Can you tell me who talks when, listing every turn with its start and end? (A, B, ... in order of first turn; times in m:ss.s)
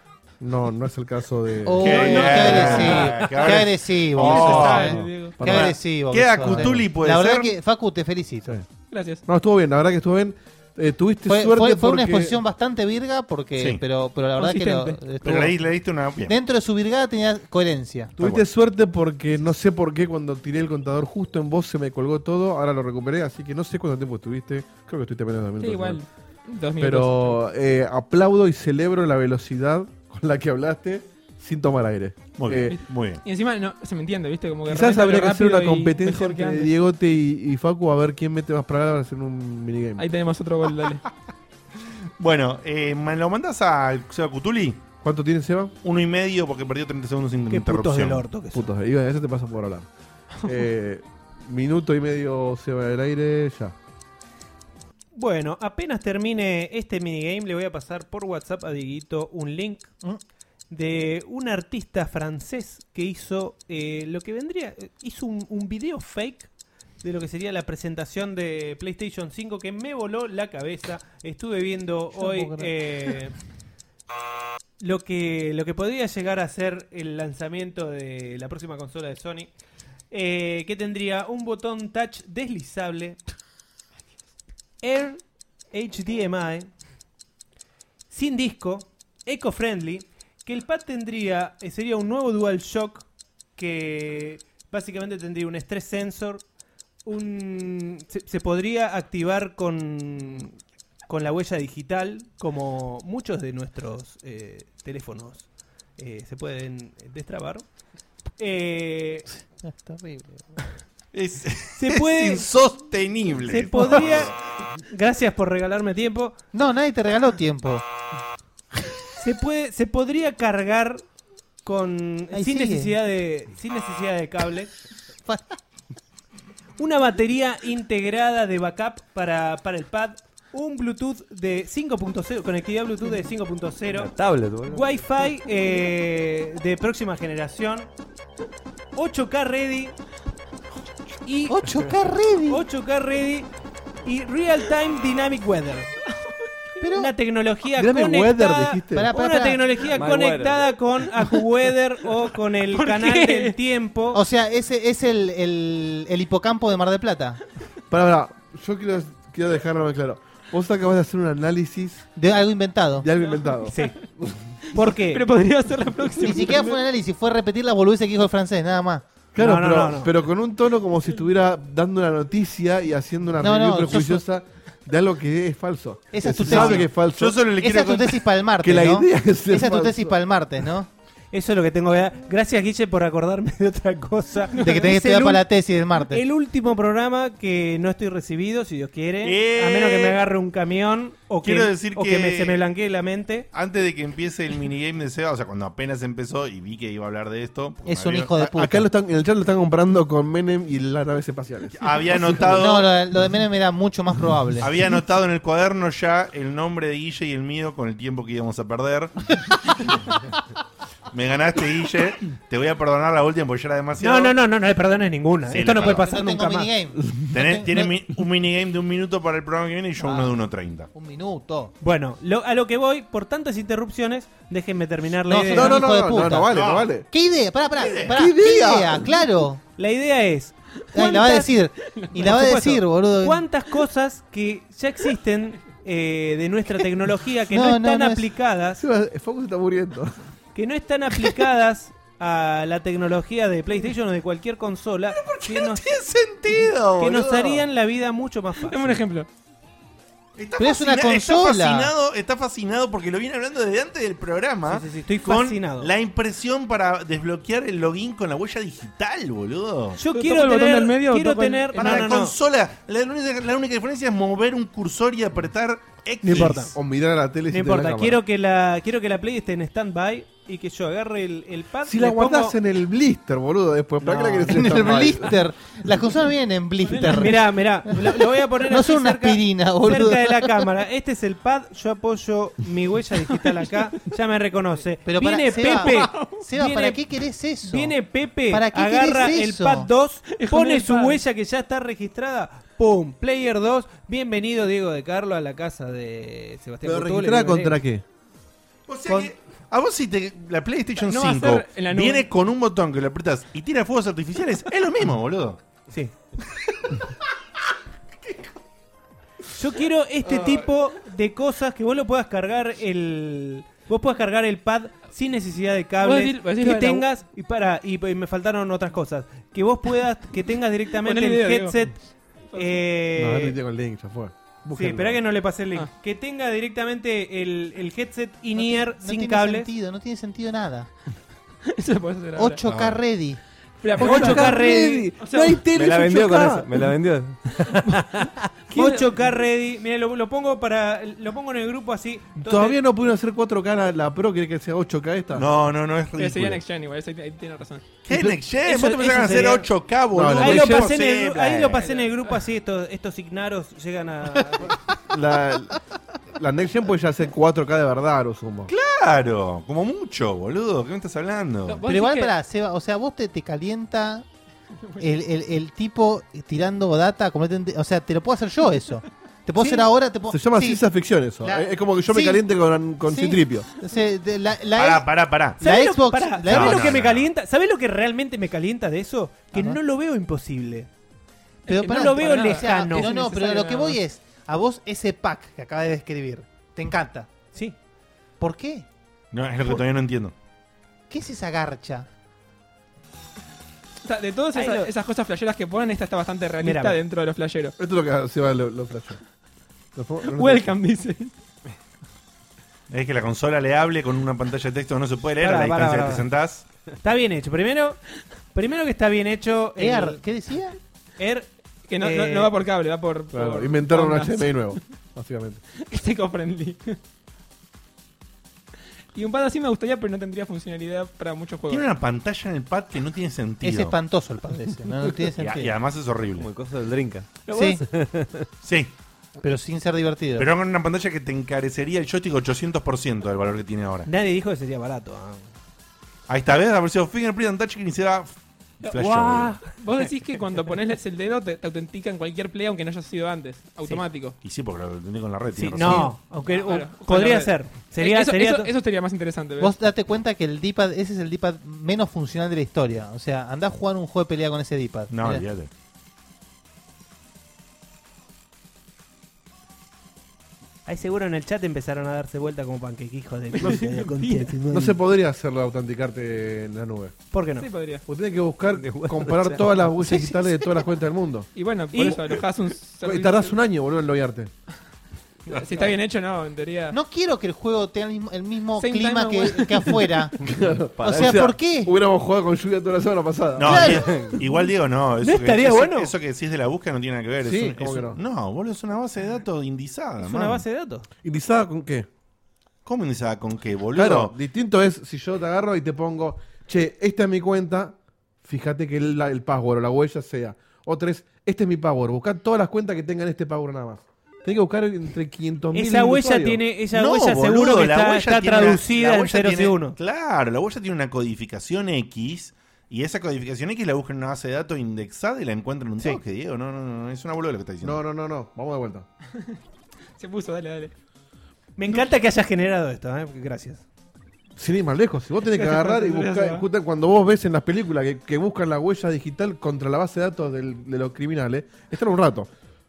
0:00.4-0:02.6 A
0:01.6-0:08.6 B
0:01.8-0:07.5 C
0:02.4-0:03.1 D
0:04.2-0:05.4 D
0:04.7-0:05.8 A
0:06.4-0:06.8 A
0:08.9-0:09.2 D
0:09.2-0:12.4 A
0:11.3-0:15.6 B
0:13.6-0:13.8 C
0:14.4-0:15.0 D
0:15.2-0:16.4 C
0:16.3-0:18.2 B
0:18.2-0:26.0 A
0:25.6-0:27.4 D
0:26.8-0:32.8 A
0:32.4-0:33.2 C
0:32.6-0:36.7 D
0:34.7-0:40.0 A
0:40.0-0:41.0 D
0:42.2-0:44.8 C
0:45.0-0:45.7 A
0:45.8-0:48.2 C
0:47.5-0:48.7 E
0:48.5-0:49.9 A
0:50.4-0:53.7 A
0:55.1-0:59.9 E
1:00.7-1:06.5 E
1:07.0-1:13.3 E
1:12.1-1:12.7 B
1:14.8-1:19.5 E
1:20.1-1:23.2 E
1:24.8-1:26.7 E
1:28.1-1:36.4 E
1:37.0-1:47.6 E
1:48.4-1:49.3 E
1:49.6-1:50.6 B
1:51.1-1:54.3 C
1:51.8-1:52.5 E
1:53.4-1:56.4 E
1:56.5-1:57.8 B
1:59.2-2:01.0 E
2:01.6-2:04.7 E
2:02.3-2:02.9 B
2:05.2-2:05.5 B
2:06.8-2:17.9 E
2:13.9-2:15.0 F
2:19.0-2:19.9 E
2:21.2-2:21.7 E
2:21.5-2:22.6 B
2:22.5-2:23.5 E
2:24.0-2:25.9 E
2:26.8-2:27.1 B
2:27.0-2:34.2 E
2:27.8-2:29.1 A
2:28.9-2:29.6 B
2:29.9-2:30.7 F
2:32.7-2:33.5 D
2:34.1-2:37.4 B
2:37.9-2:42.1 A
2:42.2-2:43.1 B
2:43.0-2:44.4 A
2:43.7-2:44.0 E
2:44.7-2:45.2 E
2:44.8-2:46.8 D
2:46.2-2:49.0 B
2:49.3-2:57.4 A
2:49.4-2:50.1 E
2:53.4-2:54.2 B
2:56.1-3:00.9 B
2:56.5-2:58.2 C
2:58.6-3:00.2 A
3:01.3-3:05.4 E
3:04.5-3:04.9 D
3:04.6-3:06.2 B
3:06.1-3:13.5 E
3:09.2-3:10.2 C
3:11.4-3:12.6 C
3:13.5-3:18.4 C
3:17.8-3:18.8 B
3:18.4-3:22.5 A
3:21.7-3:22.9 C
3:22.4-3:24.8 B
3:24.6-3:29.1 C
3:31.1-3:34.4 C
3:34.0-3:36.7 E
3:35.5-3:36.1 C
3:35.7-3:37.9 B
3:37.3-3:40.9 C
3:40.0-3:41.7 B
3:41.8-3:45.8 E
3:45.3-3:46.5 B
3:45.4-3:47.0 A
3:46.5-3:47.0 C
3:47.0-3:49.6 B
3:47.7-3:48.2 C
3:48.0-3:49.3 A
3:49.8-3:51.5 E
3:50.9-3:53.4 B
3:52.2-3:58.8 E
3:57.5-3:58.2 B
3:58.8-4:00.2 A
4:00.5-4:05.9 E
4:05.1-4:07.6 C
4:07.0-4:09.0 E
4:08.6-4:09.3 D
4:10.4-4:20.0 C
4:10.6-4:11.9 B
4:14.6-4:15.9 E
4:20.0-4:22.3 E
4:20.1-4:22.1 D
4:21.8-4:26.6 C
4:26.2-4:26.7 E
4:26.2-4:28.2 A
4:27.5-4:32.6 E
4:31.8-4:35.4 A
4:34.0-4:34.5 E
4:34.4-4:40.6 B
4:36.8-4:37.3 D
4:36.9-4:47.0 E
4:45.0-4:47.9 B
4:45.7-4:46.4 D
4:47.6-4:57.8 E
4:48.5-4:49.9 B
4:50.3-4:51.2 D
4:56.8-4:58.0 A
4:58.9-5:05.6 C
4:59.1-4:59.3 E
5:01.0-5:02.3 D
5:05.9-5:06.1 E
5:09.5-5:22.0 E
5:16.0-5:17.0 D
5:21.0-5:21.8 D
5:22.5-5:22.8 D
5:22.5-5:23.6 E
5:23.2-5:25.2 A
5:24.7-5:29.7 E
5:28.6-5:30.9 B
5:31.7-5:32.6 D
5:32.4-5:33.4 B
5:32.6-5:33.0 C
5:33.8-5:35.6 D
5:34.0-5:36.7 A
5:34.0-5:35.1 E
5:35.7-5:37.9 F
5:38.7-5:42.8 E
5:42.4-5:45.4 A
5:45.4-5:46.6 C
5:46.2-5:47.8 D
5:48.0-5:51.8 C
5:48.1-5:48.4 A
5:48.6-5:49.7 E
5:50.1-5:50.9 A
5:50.3-5:54.8 E
5:55.1-5:55.8 A
5:56.3-5:58.7 A
5:58.7-6:01.8 C
6:01.7-6:02.3 D
6:01.8-6:04.2 B
6:05.0-6:10.8 B
6:10.3-6:13.7 A
6:11.4-6:12.4 B
6:13.0-6:16.9 B
6:14.7-6:15.6 C
6:15.6-6:20.9 E
6:16.5-6:17.3 C
6:21.7-6:24.0 D
6:21.7-6:23.1 E
6:21.7-6:27.3 B
6:28.4-6:28.8 B
6:29.3-6:30.3 C
6:31.1-6:32.1 B
6:34.0-6:37.7 D
6:34.5-6:34.9 E
6:36.6-6:37.0 E
6:37.8-6:39.2 A
6:39.9-6:40.7 A
6:40.3-6:41.3 D
6:42.9-6:46.6 C
6:45.4-6:46.2 E
6:47.0-6:48.0 E
6:48.5-6:50.2 E
6:49.8-6:50.8 B
6:51.2-6:52.5 E
6:51.9-6:54.8 D
6:53.3-6:55.6 A
6:55.8-6:57.0 D
6:59.1-7:01.8 D
7:01.7-7:04.0 C
7:03.6-7:05.8 B
7:05.4-7:06.5 C
7:06.4-7:08.4 F
7:07.5-7:07.8 B
7:08.6-7:08.9 C
7:09.4-7:10.5 B
7:10.4-7:14.1 C
7:14.1-7:15.5 E
7:16.3-7:19.6 C
7:18.8-7:24.4 D
7:24.4-7:26.2 C
7:25.6-7:28.7 E
7:25.8-7:29.7 D
7:29.6-7:35.4 B
7:35.1-7:35.7 C
7:40.8-7:45.0 E
7:43.6-7:44.5 D
7:44.7-7:47.2 A
7:47.3-7:47.7 E
7:47.6-7:48.0 D
7:48.1-7:52.2 A
7:48.8-7:49.7 F
7:50.0-7:50.6 B
7:51.6-7:53.6 D
7:51.9-7:52.2 E
7:53.0-7:54.5 A
7:55.5-7:57.0 D
7:56.9-8:00.3 B
7:58.8-8:00.3 D
8:00.4-8:04.0 A
8:01.0-8:01.4 F
8:01.0-8:01.9 B
8:03.6-8:10.6 C
8:03.7-8:04.2 B
8:05.2-8:06.1 E
8:07.4-8:08.2 A
8:10.2-8:11.1 E
8:11.2-8:12.1 A
8:12.8-8:14.3 C
8:13.9-8:26.6 A
8:25.7-8:30.0 E
8:26.9-8:38.0 C
8:37.8-8:39.0 A
8:40.2-8:40.9 D
8:41.8-8:43.8 E
8:44.6-8:52.5 A
8:45.5-8:46.6 D